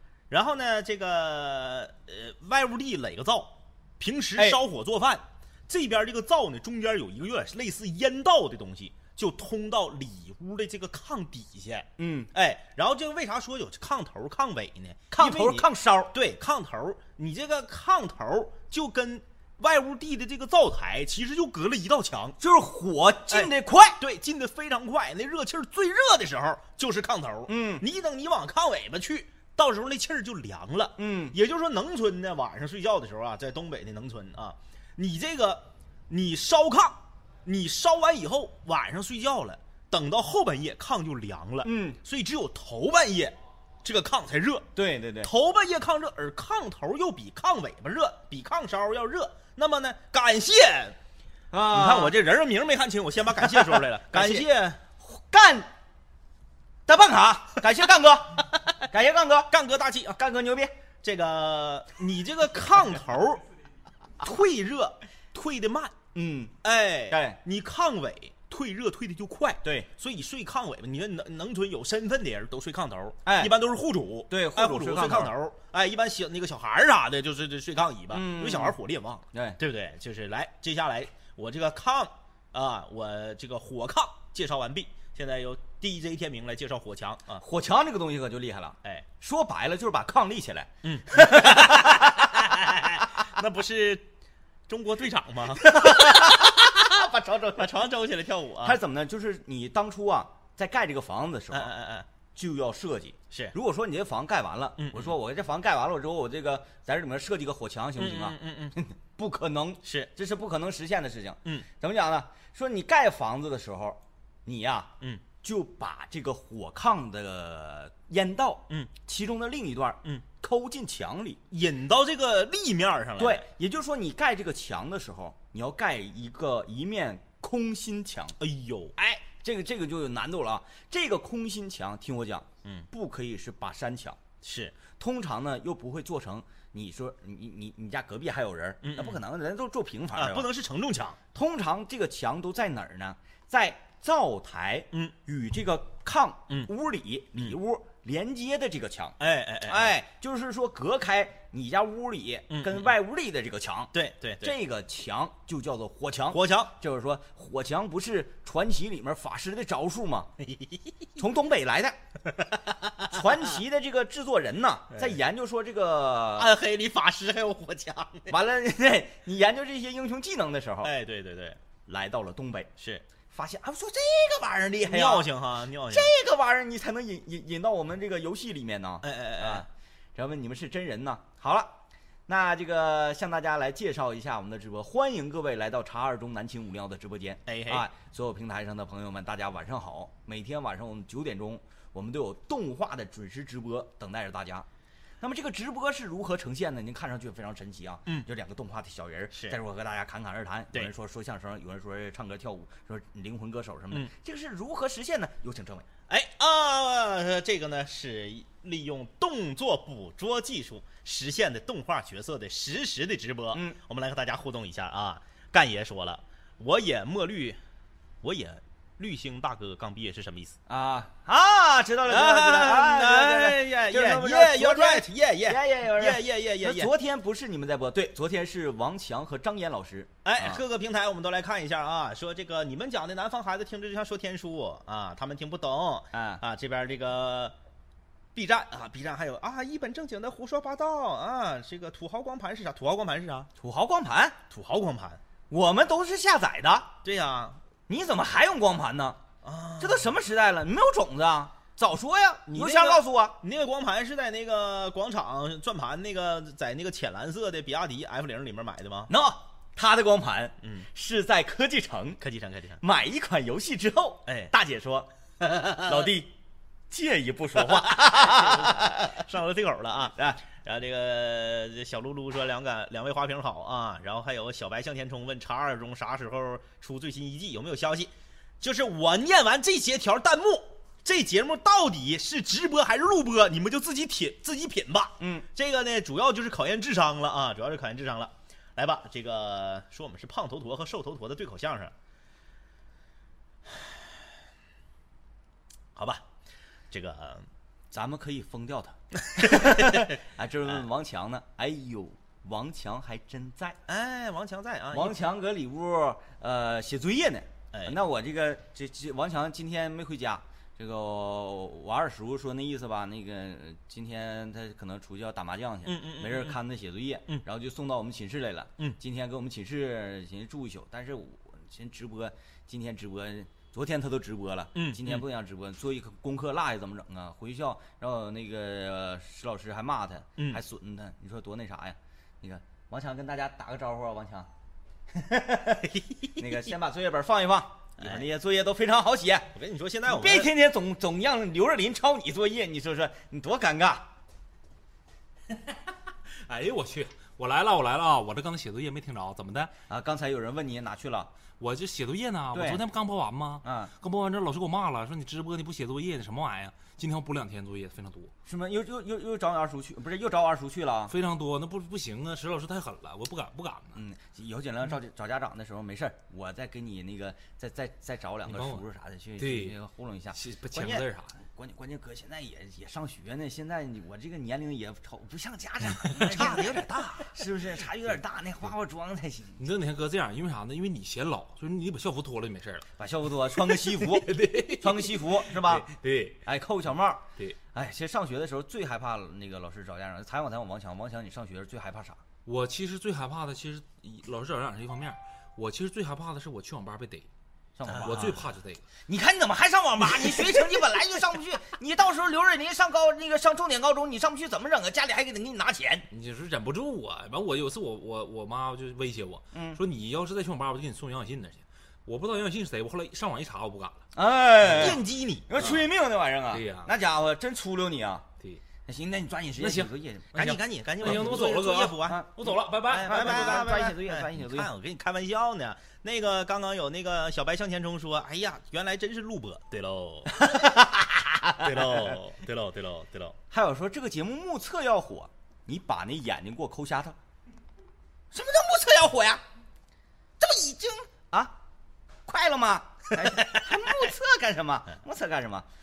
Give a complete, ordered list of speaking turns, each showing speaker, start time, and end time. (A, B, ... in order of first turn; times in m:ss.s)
0:00.3-0:22.4 A
0:12.0-0:12.3 B
0:15.1-0:16.1 B
0:22.4-0:24.0 B
0:23.3-0:44.7 A
0:27.5-0:27.8 B
0:31.0-0:31.4 B
0:41.6-0:42.0 B
0:44.7-0:45.3 B
0:45.2-0:51.0 A
0:51.5-0:52.2 B
0:51.7-0:54.8 A
0:53.4-0:54.5 B
0:55.0-0:55.7 B
0:56.8-0:59.5 B
0:59.5-1:00.2 A
1:00.2-1:00.7 B
1:01.0-1:03.4 A
1:04.2-1:05.9 A
1:06.1-1:06.6 B
1:06.6-1:27.4 A
1:07.1-1:07.4 B
1:09.6-1:09.9 B
1:13.2-1:13.5 B
1:14.3-1:15.3 B
1:18.1-1:18.8 B
1:19.3-1:19.6 B
1:27.4-1:32.9 B
1:30.8-1:34.1 A
1:34.7-1:36.5 A
1:35.6-1:37.7 B
1:37.6-1:38.8 A
1:38.6-1:41.7 B
1:41.5-1:42.0 A
1:42.3-1:54.9 B
1:44.8-1:45.1 A
1:48.0-1:48.8 A
1:49.8-1:50.1 A
1:55.4-2:01.4 B
2:01.5-2:03.5 A
2:03.2-2:08.4 B
2:08.4-2:09.2 A
2:09.2-2:14.2 B
2:14.4-2:14.8 A
2:15.0-2:20.5 B
2:18.8-2:19.2 A
2:20.1-2:21.2 A
2:21.3-2:40.3 B
2:29.2-2:30.0 A
2:32.5-2:32.9 A
2:33.9-2:34.6 A
2:36.3-2:36.7 A
2:40.4-2:40.8 A
2:41.2-2:42.0 B
2:42.4-2:43.2 A
2:43.1-2:46.5 B
2:46.3-2:48.3 A
2:48.3-2:50.9 B
2:50.8-2:51.6 A
2:51.8-2:52.7 B
2:52.8-2:53.0 A
2:53.3-2:55.3 B
2:54.5-2:56.1 A
2:55.9-3:01.8 B
2:59.0-2:59.6 A
3:02.3-3:14.7 B
3:07.4-3:07.8 A
3:15.2-3:25.9 B
3:19.3-3:19.6 A
3:26.1-3:37.6 A
3:38.2-3:40.6 A
3:40.7-3:50.6 B
3:42.0-3:46.9 A
3:50.2-3:57.5 A
3:56.1-3:56.4 B
3:58.3-4:03.5 A
4:03.6-4:04.4 B
4:04.5-4:05.2 A
4:05.5-4:07.0 B
4:07.0-4:07.6 A
4:07.9-4:09.2 B
4:09.4-4:10.2 A
4:09.8-4:13.4 B
4:12.5-4:19.1 A
4:19.1-4:22.2 B
4:22.2-4:22.8 A
4:22.8-4:24.3 B
4:24.2-4:26.1 A
4:25.8-4:26.3 B
4:26.9-4:29.2 B
4:27.6-4:51.9 A
4:30.2-4:30.4 B
4:45.2-4:45.4 B
4:53.7-4:54.0 A
4:55.9-4:56.2 A
4:56.9-4:57.4 A
4:57.9-5:03.8 B
4:59.2-5:00.2 A
5:03.9-5:05.2 A
5:04.9-5:34.5 B
5:15.8-5:16.6 A
5:24.7-5:25.2 A
5:30.4-5:30.6 A
5:35.1-5:39.5 B
5:38.0-5:38.3 A
5:39.5-5:40.5 A
5:40.0-5:44.1 B
5:46.3-5:49.7 C
5:49.9-5:51.3 B
5:51.6-5:58.3 C
5:52.5-5:52.8 B
5:53.6-5:53.9 B
5:58.4-6:01.1 B
6:01.1-6:04.0 C
6:03.9-6:19.6 B
6:08.4-6:08.8 C
6:09.4-6:09.8 C
6:10.3-6:11.4 C
6:16.1-6:17.3 A
6:19.6-6:22.9 C
6:23.0-6:25.9 B
6:23.6-6:26.4 C
6:26.4-6:32.2 B
6:32.4-6:37.3 C
6:37.8-6:38.4 B
6:37.9-6:38.4 A
6:37.9-6:38.8 C
6:39.1-6:46.1 B
6:46.1-6:54.0 C
6:49.5-6:49.8 B
6:54.1-6:58.3 B
6:54.6-6:55.8 A
6:54.7-6:55.0 C
6:56.5-6:56.9 C
6:58.8-7:02.3 B
6:59.6-7:03.8 C
7:00.3-7:02.3 A
7:02.8-7:10.5 A
7:03.0-7:04.7 B
7:10.3-7:12.2 B
7:11.6-7:13.4 A
7:13.5-7:17.2 B
7:18.3-7:19.4 B
7:20.4-7:21.6 B
7:22.2-7:25.7 B
7:23.1-7:23.7 A